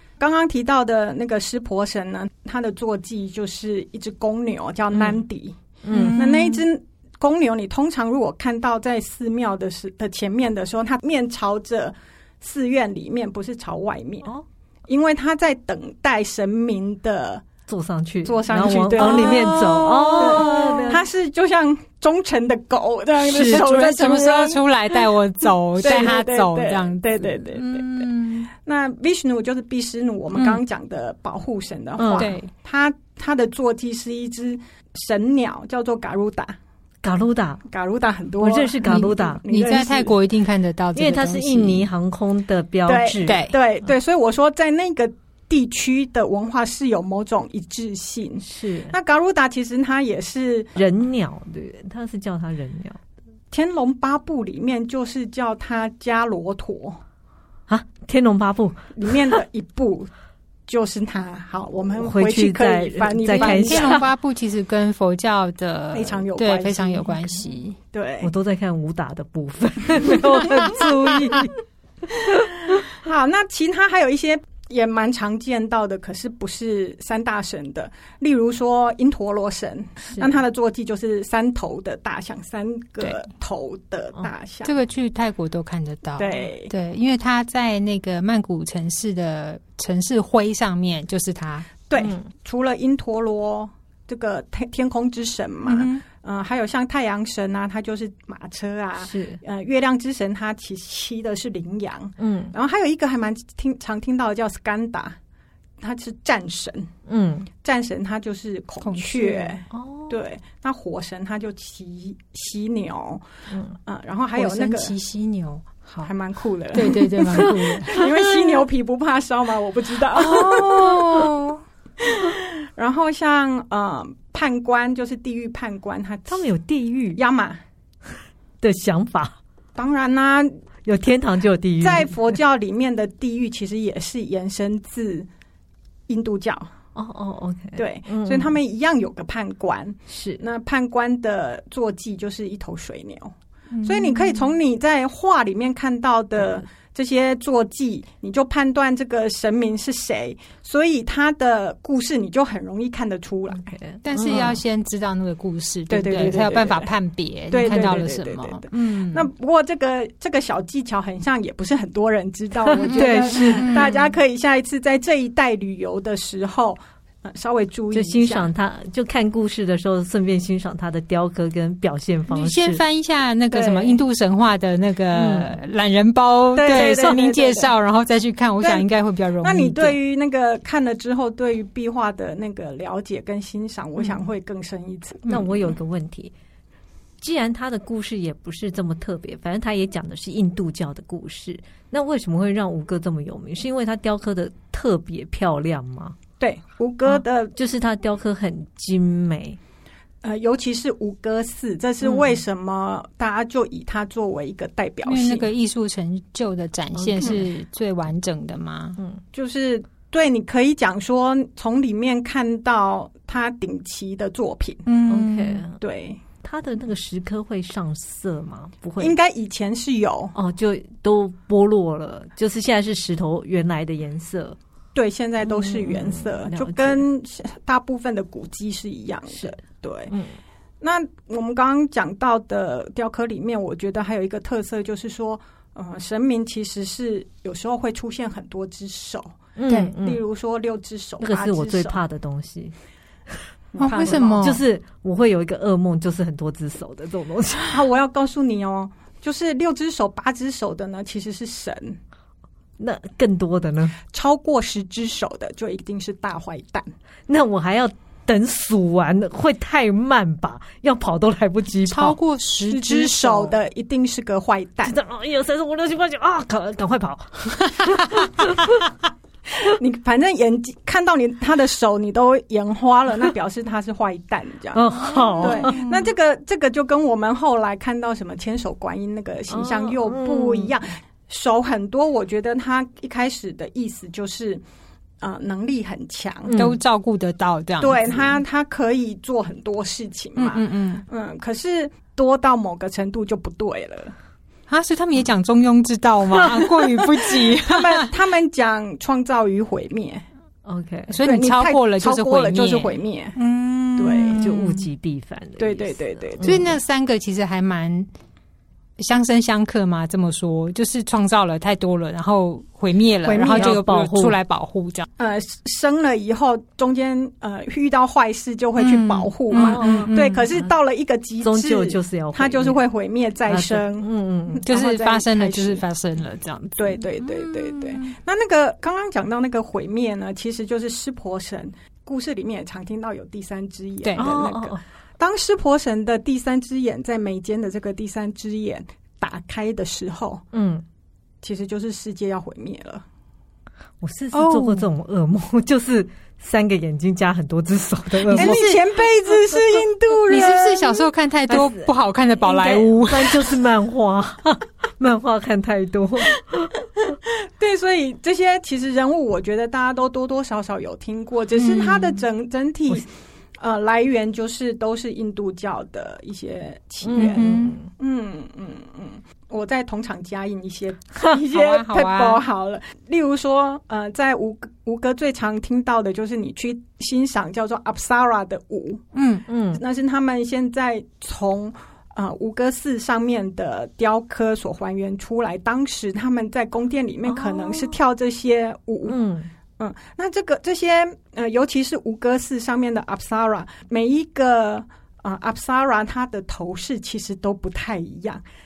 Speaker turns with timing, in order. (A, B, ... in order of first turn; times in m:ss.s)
0:00.2-0:14.3 A
0:04.9-0:05.2 B
0:05.8-0:06.2 B
0:05.9-0:06.6 C
0:14.9-0:17.5 A
0:17.7-0:21.0 B
0:18.2-0:24.6 A
0:19.0-0:19.5 C
0:20.1-0:20.8 C
0:23.2-0:23.6 B
0:23.3-0:28.5 C
0:25.8-0:36.6 A
0:30.4-0:30.6 B
0:32.0-0:32.3 B
0:32.1-0:32.5 C
0:37.0-0:37.6 B
0:37.7-0:40.1 A
0:38.4-0:39.4 B
0:38.8-0:41.9 C
0:40.9-0:43.4 B
0:42.9-0:50.7 A
0:43.2-0:43.6 C
0:48.4-0:48.9 B
0:50.8-0:53.0 B
0:53.5-0:57.0 A
0:57.7-0:59.4 B
0:59.0-1:00.1 A
1:00.7-1:04.1 A
1:02.0-1:04.1 B
1:03.3-1:07.8 C
1:05.9-1:07.2 A
1:07.9-1:08.3 A
1:08.2-1:11.5 B
1:10.0-1:10.5 A
1:12.4-1:24.8 A
1:24.6-1:31.7 C
1:26.2-1:26.7 A
1:31.9-1:45.2 A
1:32.0-1:32.3 B
1:35.6-1:36.0 C
1:39.0-1:39.4 B
1:42.2-1:42.5 B
1:45.8-1:46.9 A
1:47.1-1:47.5 B
1:47.6-1:53.2 A
1:48.8-1:49.6 C
1:49.7-1:50.2 B
1:53.5-1:53.8 B
1:53.9-1:54.9 A
1:54.4-1:56.1 C
1:56.0-2:01.3 A
1:56.7-1:58.1 C
1:57.3-1:58.5 B
2:00.1-2:01.6 C
2:02.0-2:06.5 A
2:06.3-2:07.2 B
2:07.1-2:07.6 A
2:08.6-2:09.4 B
2:09.8-2:10.6 A
2:10.8-2:12.4 B
2:11.8-2:15.3 A
2:16.1-2:16.7 A
2:17.0-2:18.5 B
2:17.8-2:23.3 A
2:20.1-2:20.4 B
2:23.8-2:24.5 C
2:23.8-2:33.8 A
2:33.6-2:34.6 B
2:34.0-2:39.3 C
2:34.3-2:34.6 A
2:35.9-2:36.9 A
2:37.5-2:48.5 A
2:37.6-2:38.0 B
2:42.7-2:44.1 C
2:42.8-2:43.9 B
2:47.9-2:52.8 B
2:52.3-3:00.0 C
2:53.5-2:54.0 A
2:55.1-2:55.5 B
2:56.6-2:57.7 A
2:56.7-2:57.2 B
2:58.6-2:58.9 A
2:59.4-3:05.4 A
3:05.2-3:06.3 B
3:07.2-3:16.2 B
3:16.4-3:17.6 A
3:17.1-3:19.6 B
3:20.2-3:25.5 A
3:22.0-3:22.4 B
3:25.1-3:29.0 C
3:26.9-3:27.5 B
3:29.3-3:34.8 A
3:34.9-3:35.6 C
3:35.1-3:35.8 B
3:35.8-3:36.2 A
3:36.4-3:39.1 B
3:39.0-3:40.3 A
3:40.4-3:44.6 B
3:45.0-3:50.1 A
3:45.4-3:47.0 B
3:50.1-3:50.4 B
3:50.8-3:59.4 A
3:59.6-4:00.2 B
3:59.7-3:59.9 C
4:00.0-4:02.0 A
4:01.2-4:02.7 B
4:03.7-4:04.6 A
4:03.8-4:04.6 C
4:04.0-4:07.8 B
4:07.7-4:12.0 A
4:12.8-4:14.0 B
4:14.1-4:16.9 A
4:17.3-4:22.2 B
4:21.9-4:23.6 C
4:22.7-4:25.0 A
4:24.8-4:28.8 B
4:29.6-4:44.6 A
4:34.7-4:35.8 B
4:35.2-4:36.1 C
4:39.5-4:40.8 B
4:45.2-4:46.5 A
4:46.5-4:46.8 B
4:46.5-4:48.2 C
4:47.8-4:54.1 A
4:50.4-4:51.1 C
4:54.7-4:58.1 C
4:56.3-4:57.2 B
4:57.6-5:00.2 A
5:00.6-5:01.2 B
5:01.1-5:04.9 C
5:01.2-5:03.4 A
5:04.0-5:04.4 A
5:04.4-5:06.8 B
5:05.6-5:06.7 A
5:06.4-5:08.1 C
5:09.0-5:15.1 C
5:13.2-5:13.8 A
5:13.4-5:14.4 B
5:15.2-5:25.8 A
5:18.8-5:20.1 C
5:19.5-5:20.7 B
5:21.4-5:22.8 B
5:23.5-5:24.6 B
5:24.7-5:28.1 C
5:26.8-5:40.4 A
5:34.2-5:34.8 B
5:40.5-5:40.8 B
5:41.4-5:43.0 A
5:44.0-5:48.6 B
5:44.3-5:44.9 C
5:48.2-5:48.8 C
5:48.3-5:51.1 A
5:50.3-5:53.6 C
5:51.5-5:51.9 B
5:52.4-5:56.7 B
5:57.6-6:03.1 A
6:01.6-6:02.3 C
6:03.6-6:19.0 A
6:07.0-6:07.9 B
6:07.2-6:07.8 C
6:11.5-6:12.4 C
6:19.1-6:19.4 C
6:19.5-6:19.8 B
6:19.7-6:29.2 A
6:27.3-6:27.9 B
6:29.1-6:29.5 B
6:29.8-6:38.4 A